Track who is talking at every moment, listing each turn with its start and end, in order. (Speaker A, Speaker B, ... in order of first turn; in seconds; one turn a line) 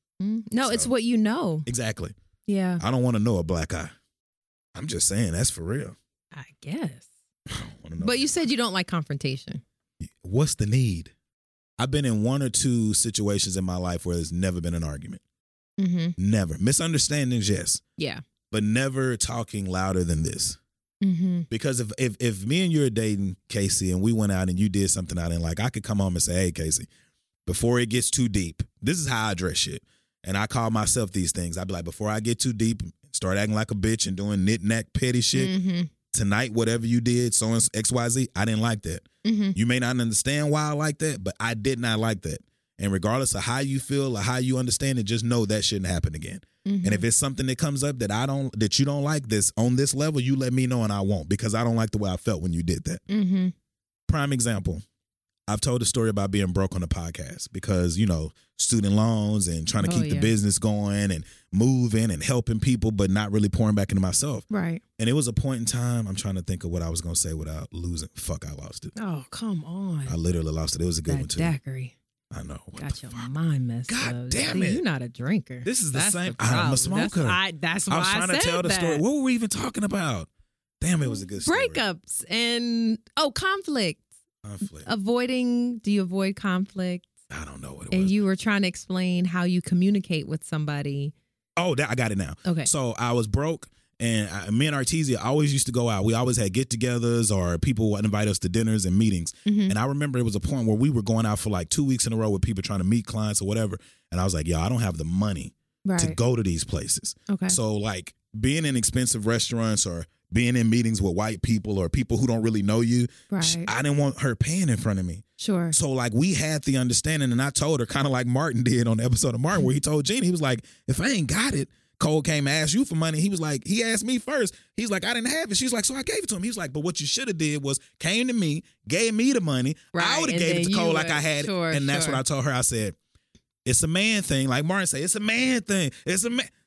Speaker A: 0.2-1.6
Speaker B: 0.6-0.9
Speaker B: 1.6-2.1
Speaker A: 2.5-2.8
Speaker B: 2.8-3.9
Speaker B: 4.7-6.0
Speaker A: 6.3-7.0
Speaker B: 7.5-8.3
Speaker A: 8.0-9.6
Speaker B: 10.1-11.1
Speaker B: 11.8-15.2
Speaker A: 15.8-16.1
Speaker B: 16.2-17.8
Speaker B: 18.5-20.6
Speaker A: 21.0-21.5
Speaker B: 21.5-26.9
Speaker B: 27.4-35.5
Speaker A: 35.3-35.9
Speaker B: 36.1-53.0
Speaker A: 39.2-39.5
Speaker A: 46.6-47.0
Speaker A: 53.1-53.5
Speaker B: 54.1-54.8
Speaker B: 55.5-64.5
Speaker A: 59.8-60.3
Speaker A: 64.5-64.8
Speaker B: 65.0-68.9
Speaker A: 68.9-70.2
Speaker B: 70.1-71.5
Speaker A: 71.1-71.9
Speaker B: 72.3-73.3
Speaker A: 72.8-79.0
Speaker B: 73.9-74.8
Speaker B: 75.6-80.3
Speaker B: 80.8-81.8
Speaker A: 81.0-84.0
Speaker B: 84.4-84.9
Speaker A: 84.8-87.1
Speaker B: 87.3-88.2
Speaker A: 87.9-91.1
Speaker B: 91.6-132.9
Speaker A: 92.4-92.7
Speaker A: 99.5-99.7
Speaker A: 105.8-106.2
Speaker A: 107.3-107.6
Speaker A: 113.3-113.7
Speaker A: 115.4-115.8
Speaker A: 129.9-132.2
Speaker B: 133.6-136.5